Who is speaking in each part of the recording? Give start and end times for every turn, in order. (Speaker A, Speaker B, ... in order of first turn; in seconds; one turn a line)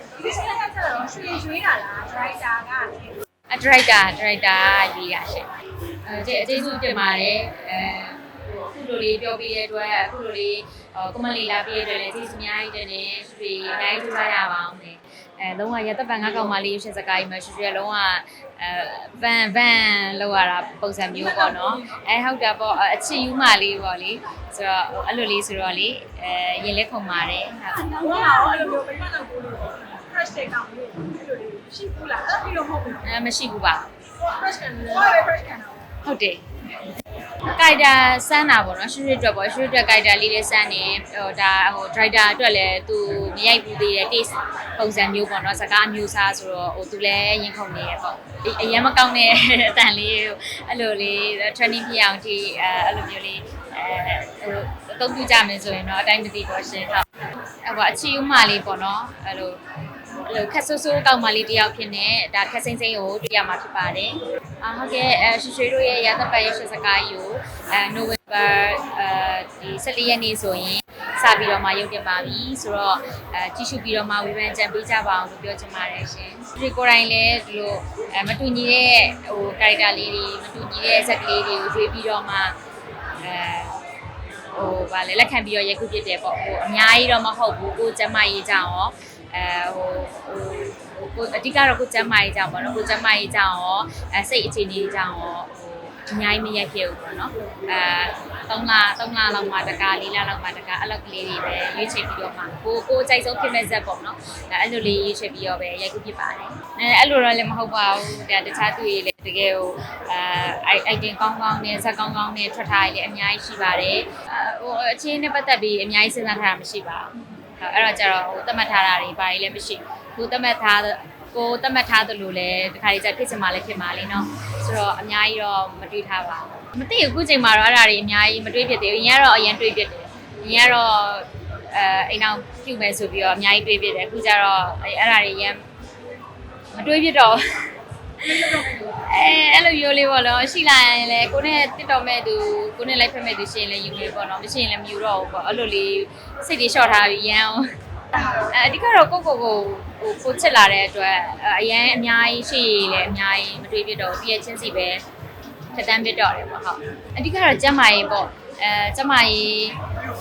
Speaker A: 0.1-3.1
Speaker B: 3.5-5.5
Speaker B: 6.0-28.0
Speaker A: 27.9-33.0
Speaker B: 33.0-33.9
Speaker A: 34.3-35.9
Speaker B: 36.0-36.7
Speaker B: 37.4-59.6
Speaker B: 60.2-82.6
Speaker B: 83.2-83.9
Speaker B: 84.5-135.7
Speaker B: 136.7-155.0
Speaker A: 138.3-138.8
Speaker B: 155.7-159.8